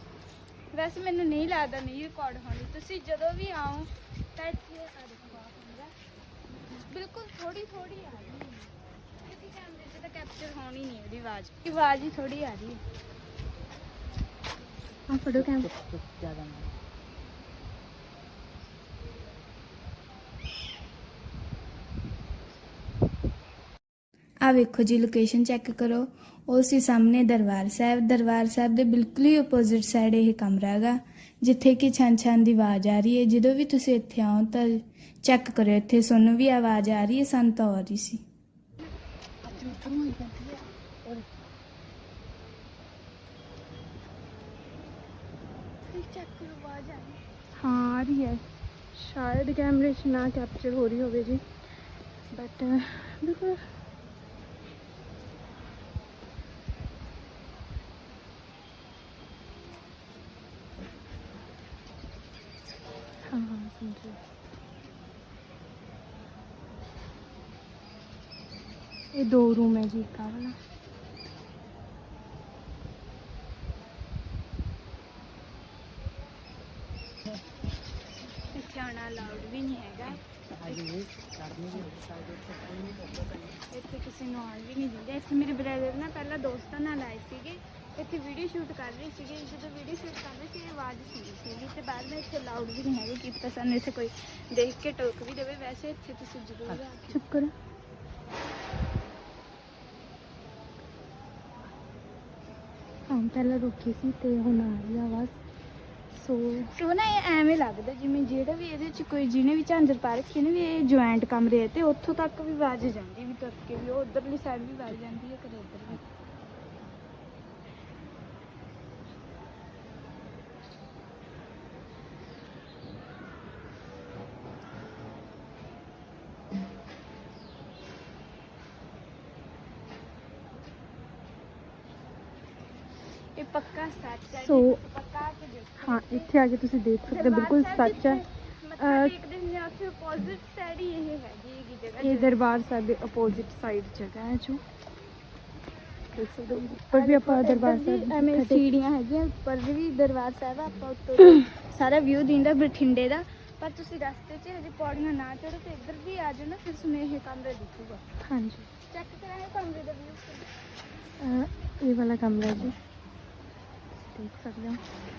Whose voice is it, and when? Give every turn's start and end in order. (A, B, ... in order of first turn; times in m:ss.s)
0:00.7-0:05.9 A
0:06.8-0:08.7 A
0:09.2-0:12.8 A
0:15.1-0:15.7 B
0:15.3-0:16.7 C
0:24.4-0:38.2 A
0:39.4-0:41.2 B
0:45.9-0:48.4 B
0:48.9-0:51.4 B
0:52.3-0:53.6 B
1:03.3-1:04.2 B
1:09.1-1:10.6 B
1:18.5-1:20.8 A
1:20.5-1:23.6 C
1:23.7-1:37.2 A
1:37.1-1:37.5 B
1:43.1-1:45.3 B
1:46.1-1:46.7 B
1:46.7-1:56.0 A
2:13.3-2:16.3 A
2:14.4-2:14.8 B
2:15.8-2:18.2 B
2:17.1-2:22.3 A
2:18.8-2:19.1 B
2:22.0-2:24.6 B
2:26.1-2:28.6 B
2:26.9-2:38.0 A
2:38.2-2:38.7 B
2:38.9-2:40.5 A
2:41.2-2:42.8 B
2:44.1-2:44.8 B